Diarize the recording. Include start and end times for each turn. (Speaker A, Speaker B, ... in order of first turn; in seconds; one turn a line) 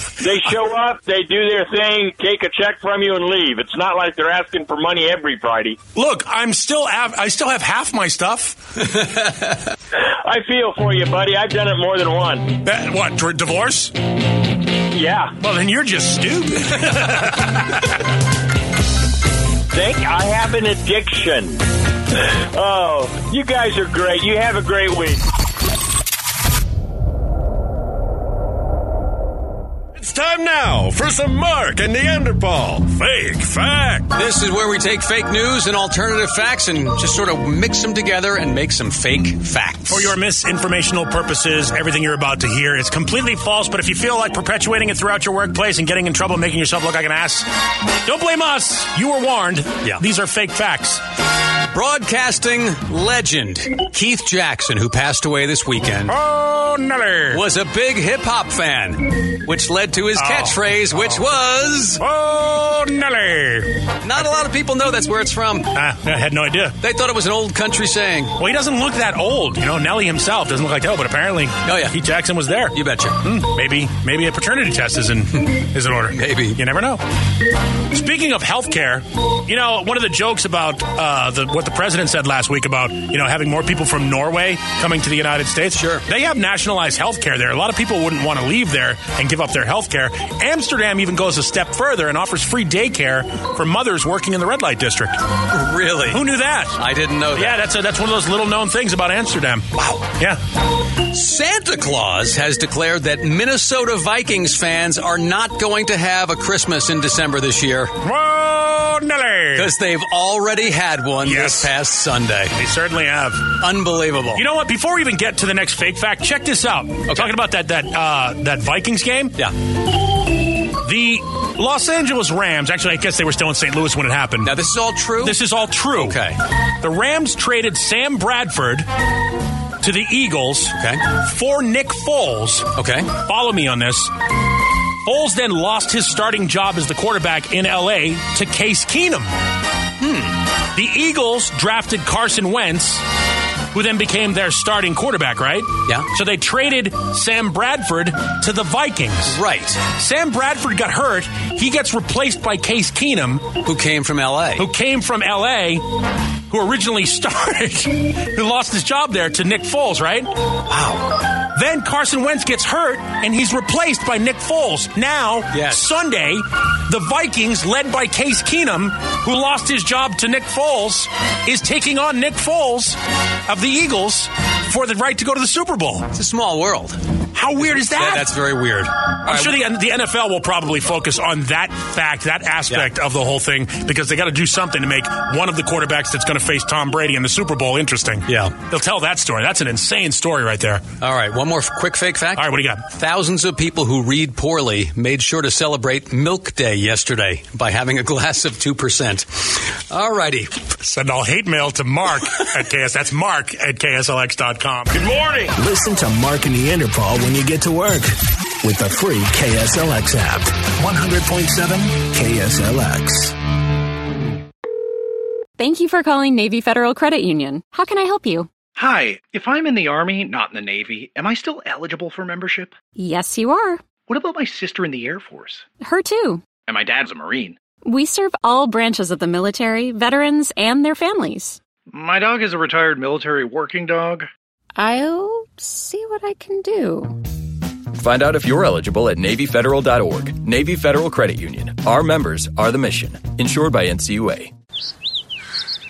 Speaker A: 0.2-5.8
Speaker B: 6.0-8.6
Speaker C: 8.8-9.6
Speaker A: 10.2-12.6
Speaker B: 12.6-13.9
Speaker A: 14.9-15.3
Speaker B: 15.4-17.9
Speaker A: 19.7-25.2
Speaker D: 29.9-34.1
Speaker C: 34.1-40.1
Speaker B: 39.9-47.5
Speaker B: 48.0-51.0
Speaker C: 51.7-56.2
Speaker B: 56.1-57.4
Speaker C: 57.3-62.0
Speaker B: 60.1-61.2
Speaker B: 62.0-64.3
Speaker C: 64.0-65.7
Speaker B: 65.7-66.8
Speaker C: 66.8-68.4
Speaker B: 68.4-77.0
Speaker C: 71.7-72.0
Speaker C: 72.7-73.2
Speaker C: 76.1-76.6
Speaker B: 77.9-95.2
Speaker C: 85.8-86.0
Speaker C: 95.5-96.2
Speaker B: 96.1-96.8
Speaker C: 96.8-97.6
Speaker B: 97.3-100.4
Speaker C: 99.8-100.1
Speaker C: 101.0-108.0
Speaker B: 108.0-109.7
Speaker C: 109.5-112.6
Speaker B: 111.2-111.7
Speaker B: 112.6-113.6
Speaker C: 113.6-114.4
Speaker B: 114.3-119.4
Speaker C: 117.1-117.3
Speaker B: 120.8-124.6
Speaker C: 124.4-125.4
Speaker B: 125.2-126.2
Speaker C: 126.0-126.4
Speaker B: 126.8-128.9
Speaker B: 129.8-134.1
Speaker C: 132.8-133.1
Speaker B: 135.0-139.3
Speaker C: 140.0-140.4
Speaker B: 140.7-143.0
Speaker B: 143.7-153.6
Speaker C: 149.3-149.8
Speaker C: 153.6-154.7
Speaker B: 154.6-155.8
Speaker B: 156.5-160.3
Speaker C: 160.7-161.2
Speaker B: 161.4-176.1
Speaker C: 165.5-165.9
Speaker C: 176.1-177.0
Speaker B: 177.3-178.3
Speaker C: 177.6-179.6
Speaker B: 179.2-190.9
Speaker C: 188.3-188.5
Speaker C: 191.0-200.5
Speaker B: 192.3-192.8
Speaker B: 200.8-205.1
Speaker E: 205.6-213.3
Speaker F: 215.6-218.5
Speaker G: 218.8-222.8
Speaker F: 222.9-223.8
Speaker G: 224.1-225.7
Speaker F: 225.8-226.5
Speaker G: 226.6-227.6
Speaker F: 227.8-231.6
Speaker G: 231.9-234.3
Speaker F: 234.8-237.2
Speaker H: 238.0-244.5